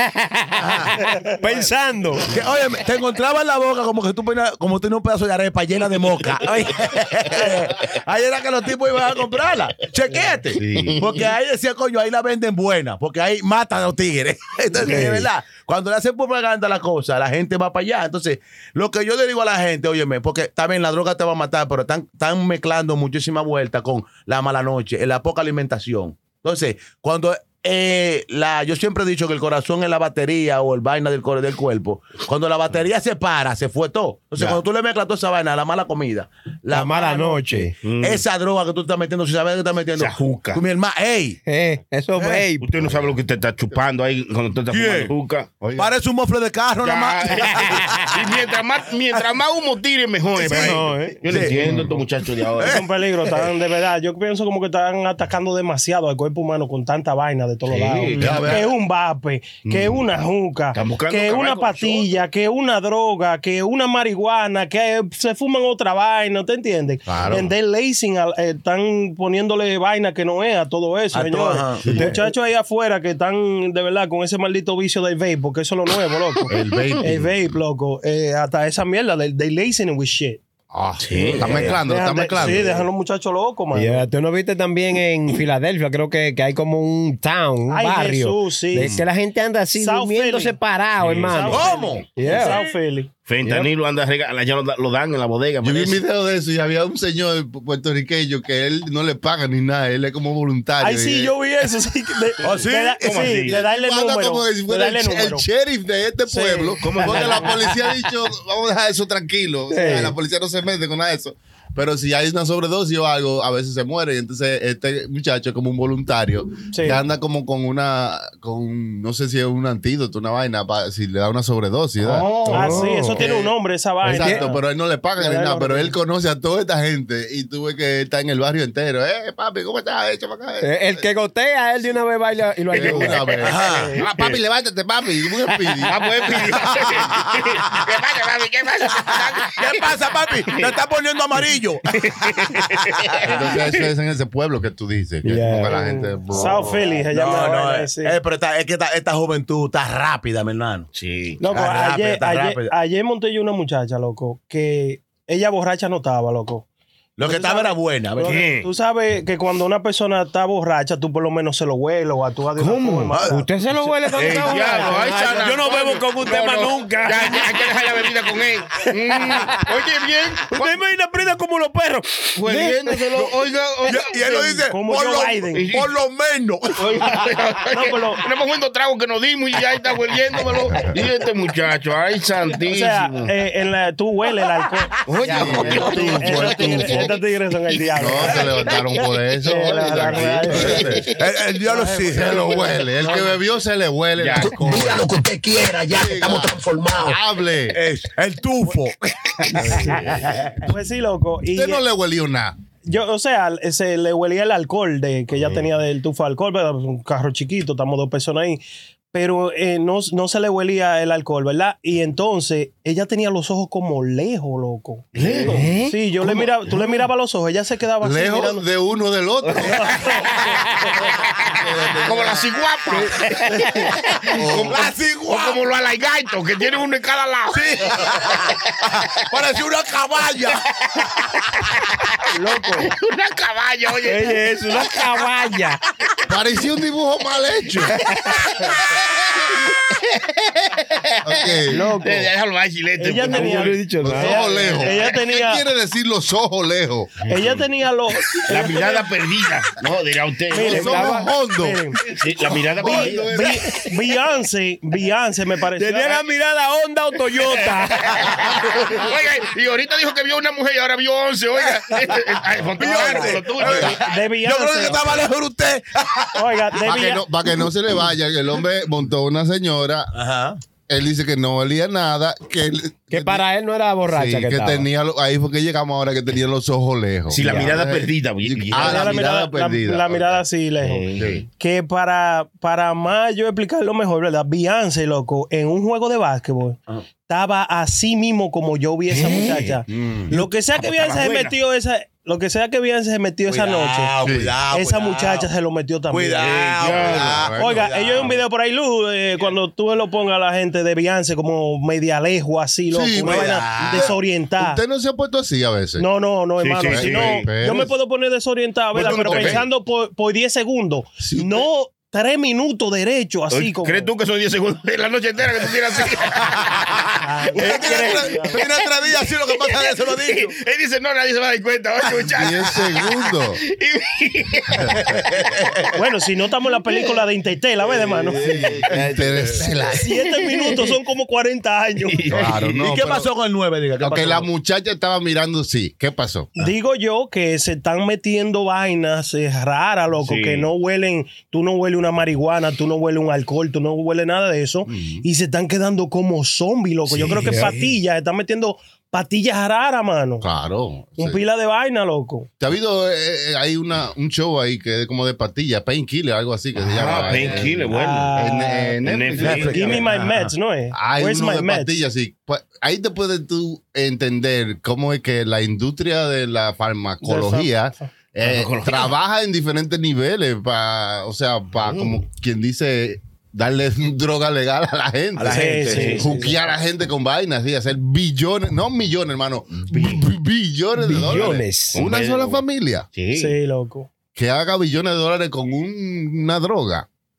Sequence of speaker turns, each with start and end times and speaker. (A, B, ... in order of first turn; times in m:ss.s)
0:00.6-0:01.0 A
0:01.2-0:02.3 B
0:02.3-0:41.4 A
0:10.6-0:11.1 C
0:10.6-0:11.0 D
0:14.8-0:15.3 B
0:36.7-0:37.7 B
0:37.8-0:38.2 C
0:40.0-0:40.6 C
0:41.5-0:42.7 B
0:42.2-0:42.5 A
0:42.6-0:45.5 C
0:44.7-0:45.1 A
0:45.6-0:45.9 D
0:45.7-0:48.3 A
0:46.8-0:52.7 C
0:50.4-0:51.8 A
0:50.5-0:51.5 B
0:51.4-0:52.0 D
0:52.5-0:53.5 A
0:52.7-1:20.4 E
0:57.7-0:58.5 C
0:58.1-0:58.7 D
0:59.6-1:00.0 D
1:00.7-1:02.2 C
1:07.1-1:07.5 D
1:11.1-1:12.0 A
1:11.8-1:12.2 D
1:16.5-1:17.3 D
1:16.7-1:17.0 C
1:20.7-1:22.8 D
1:21.0-1:21.7 C
1:21.8-1:24.1 E
1:23.7-1:32.6 B
1:27.7-1:28.9 E
1:29.8-1:33.1 E
1:31.4-1:32.6 A
1:33.3-1:36.0 C
1:35.6-1:41.3 D
1:40.8-1:45.4 E
1:42.4-1:43.5 A
1:43.0-1:43.6 C
1:43.5-2:03.5 D
1:46.3-1:47.4 E
1:46.8-1:47.5 C
1:49.7-1:50.1 E
1:49.8-1:50.1 B
1:56.7-1:57.0 E
2:02.1-2:02.5 C
2:02.4-2:03.2 B
2:02.5-2:04.6 E
2:04.0-2:04.4 B
2:04.1-2:11.0 D
2:05.2-2:06.0 E
2:10.6-2:13.8 B
2:12.7-2:16.0 D
2:13.4-2:14.0 A
2:15.8-2:19.9 C
2:19.5-2:23.6 A
2:20.5-2:20.7 C
2:21.9-2:23.8 C
2:23.2-2:26.8 D
2:25.2-2:25.8 B
2:25.7-2:28.2 E
2:27.1-2:30.9 A
2:30.9-2:31.4 C
2:31.4-2:36.6 E
2:31.4-2:32.7 A
2:37.2-2:38.4 A
2:37.2-2:45.2 E
2:38.2-2:38.7 C
2:42.6-2:43.2 C
2:43.1-2:43.4 A
2:43.3-2:47.6 B
2:44.1-2:50.7 C
2:48.8-2:53.3 B
2:52.4-2:54.5 C
2:53.8-2:57.3 A
2:54.6-2:55.6 E
2:55.5-2:55.9 C
2:56.8-3:03.3 C
2:57.7-2:58.2 E
3:02.7-3:08.4 E
3:05.0-3:07.1 C
3:05.2-3:07.1 D
3:08.0-3:11.1 D
3:08.1-3:08.8 C
3:09.4-3:11.0 E
3:09.8-3:11.2 C
3:11.1-3:12.5 A
3:11.7-3:13.2 E
3:12.0-3:15.0 D
3:14.2-3:14.5 C
3:14.4-3:17.2 F
3:15.9-3:17.8 D
3:17.7-3:20.6 A
3:19.5-3:20.4 D
3:20.6-3:21.8 E
3:21.5-3:22.6 D
3:22.8-3:28.6 E
3:29.1-3:38.6 E
3:35.2-3:35.9 C
3:35.2-3:35.6 D
3:36.2-3:37.0 D
3:38.0-3:40.2 D
3:39.4-3:40.6 C
3:39.7-3:40.2 E
3:41.1-3:42.5 D
3:41.2-3:48.6 C
3:44.2-3:44.9 D
3:44.5-3:45.6 A
3:47.5-3:50.6 A
3:50.4-3:51.9 C
3:52.3-3:52.9 E
3:52.8-3:55.0 C
3:54.0-3:55.8 B
3:56.3-3:58.0 D
3:57.8-3:58.5 B
3:58.3-4:03.8 C
4:01.2-4:01.8 D
4:01.7-4:02.3 E
4:03.0-4:05.6 E
4:03.3-4:04.4 B
4:04.0-4:07.2 D
4:07.2-4:07.6 C
4:07.3-4:08.7 E
4:08.5-4:10.9 C
4:10.5-4:12.0 E
4:10.7-4:13.8 D
4:10.7-4:11.3 B
4:12.2-4:13.3 C
4:12.8-4:16.2 E
4:15.8-4:18.4 B
4:18.0-4:24.0 C
4:22.8-4:26.7 A
4:22.9-4:23.3 B
4:24.0-4:25.2 E
4:26.4-4:27.2 E
4:26.8-4:30.1 D
4:30.1-4:30.6 A
4:30.9-4:33.4 D
4:33.1-4:34.9 B
4:34.0-4:40.4 D
4:37.3-4:39.2 C
4:37.4-4:37.7 B
4:38.8-4:41.0 E
4:40.8-4:41.4 C
4:41.2-4:41.4 D
4:41.6-4:54.1 E
4:49.2-4:49.8 C
4:49.9-4:50.3 A
4:50.7-4:51.5 C
4:53.5-4:55.5 A
4:54.2-4:54.5 D
4:54.7-4:56.5 E
4:56.1-4:58.4 A
4:56.4-4:57.5 C
4:56.9-4:57.9 D
4:57.6-5:04.8 E
5:02.9-5:06.0 D
5:03.2-5:04.1 A
5:06.0-5:14.1 E
5:06.6-5:07.5 C
5:06.9-5:07.9 D
5:08.9-5:09.6 D
5:09.0-5:09.6 C
5:11.2-5:11.6 D
5:13.5-5:17.1 C
5:16.4-5:17.0 A
5:17.2-5:18.6 E
5:17.6-5:20.6 A
5:17.6-5:18.2 C
5:19.6-5:25.8 C
5:22.3-5:23.6 D
5:24.7-5:25.0 D
5:24.9-5:25.7 A
5:25.9-5:28.8 E
5:27.8-5:30.8 C
5:28.4-5:30.0 D
5:29.9-5:32.2 E
5:32.1-5:32.6 C
5:32.3-5:33.3 D
5:32.3-5:34.5 A
5:34.0-5:36.5 D
5:36.6-5:50.4 E
5:40.2-5:40.7 C
5:44.9-5:45.2 D
5:47.3-5:47.8 B
5:47.4-5:47.7 C
5:50.4-5:51.4 D
5:51.2-5:52.5 E
5:52.6-6:00.0 D
5:56.8-5:58.4 C
5:57.9-6:02.0 E
5:59.0-6:00.0 C
5:59.4-6:00.5 A
6:00.9-6:23.1 D
6:07.2-6:08.1 E
6:08.4-6:09.2 C
6:11.8-6:12.2 C
6:15.4-6:16.5 A
6:15.5-6:16.5 E
6:15.9-6:16.3 C
6:19.9-6:20.2 C
6:21.0-6:22.0 B
6:21.9-6:22.6 C
6:23.1-6:23.5 C
6:23.3-6:24.1 E
6:24.4-6:27.1 D